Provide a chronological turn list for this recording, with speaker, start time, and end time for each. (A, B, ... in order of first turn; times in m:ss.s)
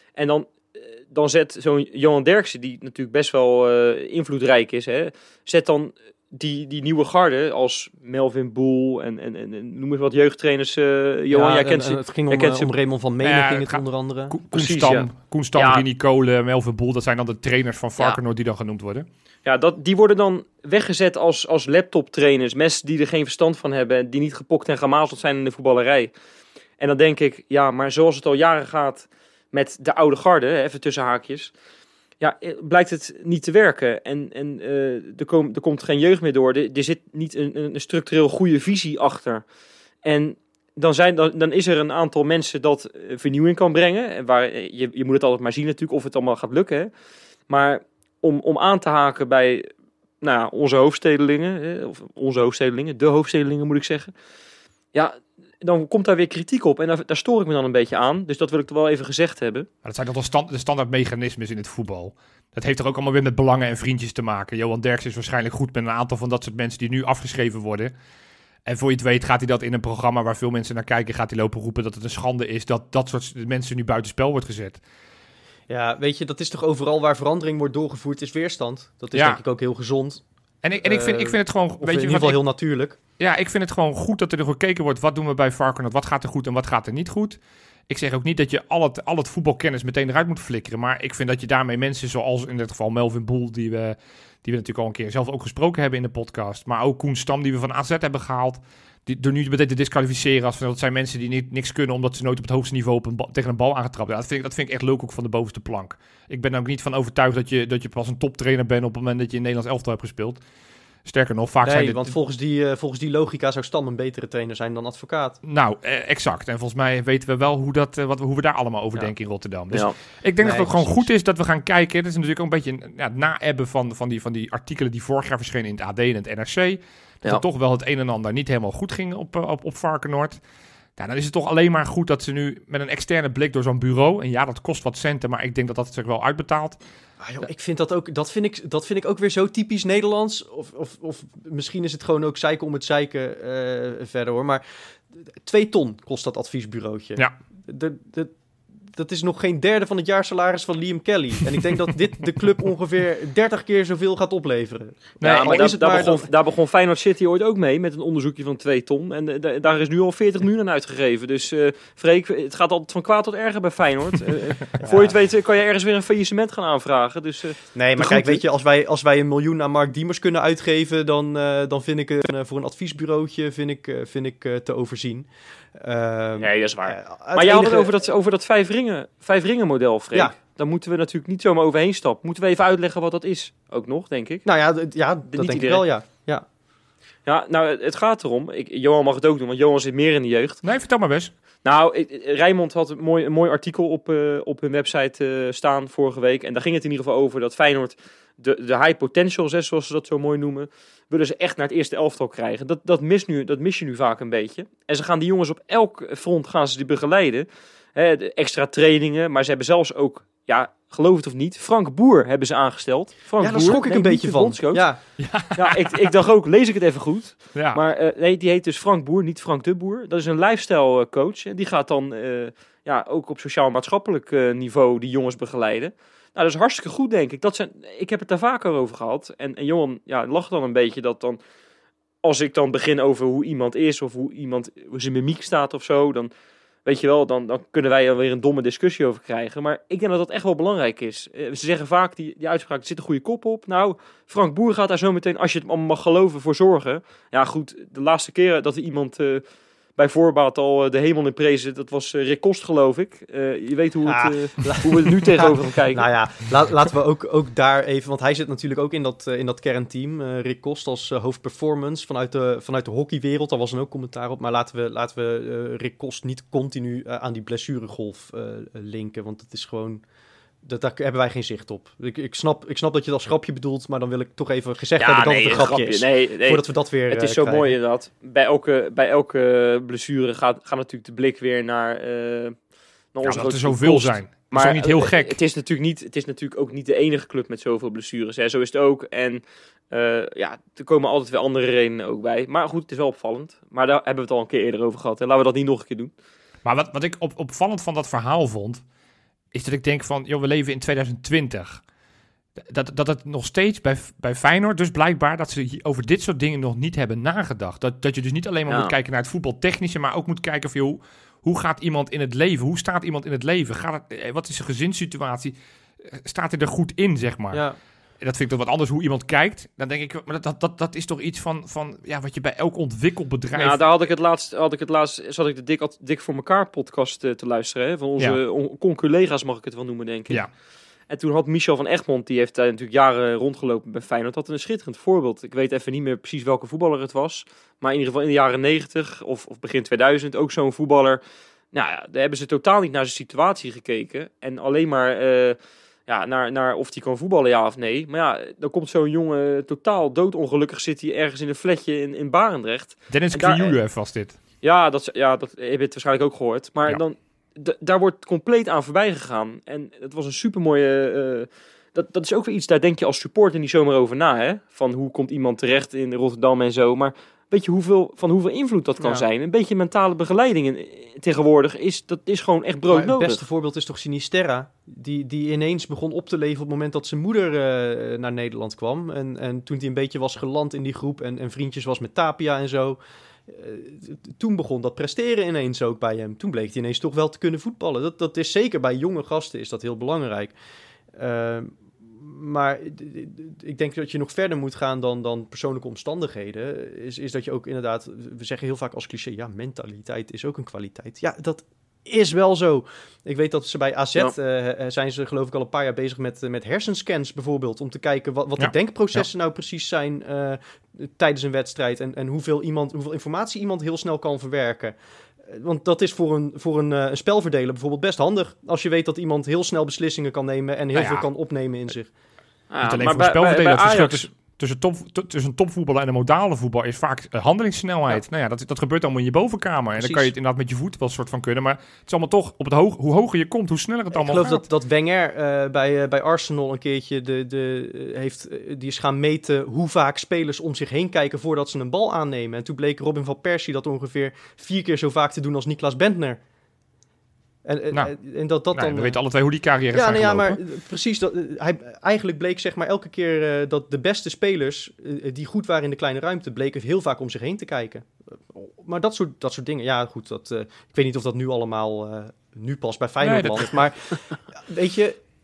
0:00.2-0:12.7 A
0:11.3-0:14.4 B
0:13.2-0:19.1 C
0:14.5-0:15.8 A
0:19.4-0:26.1 A
0:26.8-0:31.5 A
0:32.2-0:39.4 A
0:40.0-0:46.9 A
0:47.5-0:49.7 A
0:50.2-0:54.1 A
0:54.9-0:59.7 A
0:59.8-1:07.9 C
1:08.7-1:14.8 C
1:15.7-1:20.2 B
1:19.1-1:19.4 C
1:20.6-1:22.4 C
1:20.8-1:23.0 B
1:23.2-1:27.4 C
1:27.9-1:50.4 C
1:51.1-1:52.1 C
1:51.6-1:55.4 B
1:55.4-2:10.4 C
2:00.4-2:01.1 B
2:11.0-2:16.8 C
2:17.2-2:28.3 B
2:28.9-2:36.3 B
2:35.2-2:35.8 C
2:35.2-2:47.6 A
2:44.8-2:45.1 B
2:47.8-2:58.0 B
2:48.0-2:48.4 C
2:56.4-3:04.5 A
3:04.4-3:06.4 B
3:05.3-3:05.9 A
3:07.3-3:10.6 A
3:10.6-3:11.3 C
3:11.6-3:34.9 A
3:33.4-3:35.0 B
3:35.2-3:36.1 C
3:35.6-3:51.4 A
3:37.6-3:37.8 C
3:52.2-3:56.3 A
3:56.8-4:09.4 A
4:10.0-4:16.1 A
4:14.1-4:30.0 B
4:30.6-4:37.8 B
4:35.0-4:42.6 A
4:43.1-4:56.1 A
4:43.2-4:45.4 C
4:56.6-4:58.8 C
4:59.5-5:01.8 C
5:02.6-5:15.5 C
5:08.7-5:08.9 A
5:16.1-5:17.7 C
5:17.5-5:17.8 B
5:18.2-5:23.8 C
5:23.6-5:30.4 A
5:31.1-5:41.2 A
5:41.7-5:53.8 A
5:53.1-5:54.4 C
5:54.6-6:13.4 A
6:12.9-6:30.5 B
6:31.2-7:02.1 B
6:48.6-6:49.2 C
7:00.9-7:01.3 C
7:02.7-7:04.3 A
7:02.8-7:14.6 C
7:10.0-7:10.3 B
7:14.1-7:26.4 B
7:27.6-7:29.2 B
7:28.7-7:30.6 C
7:29.9-7:45.2 B
7:43.2-7:43.7 C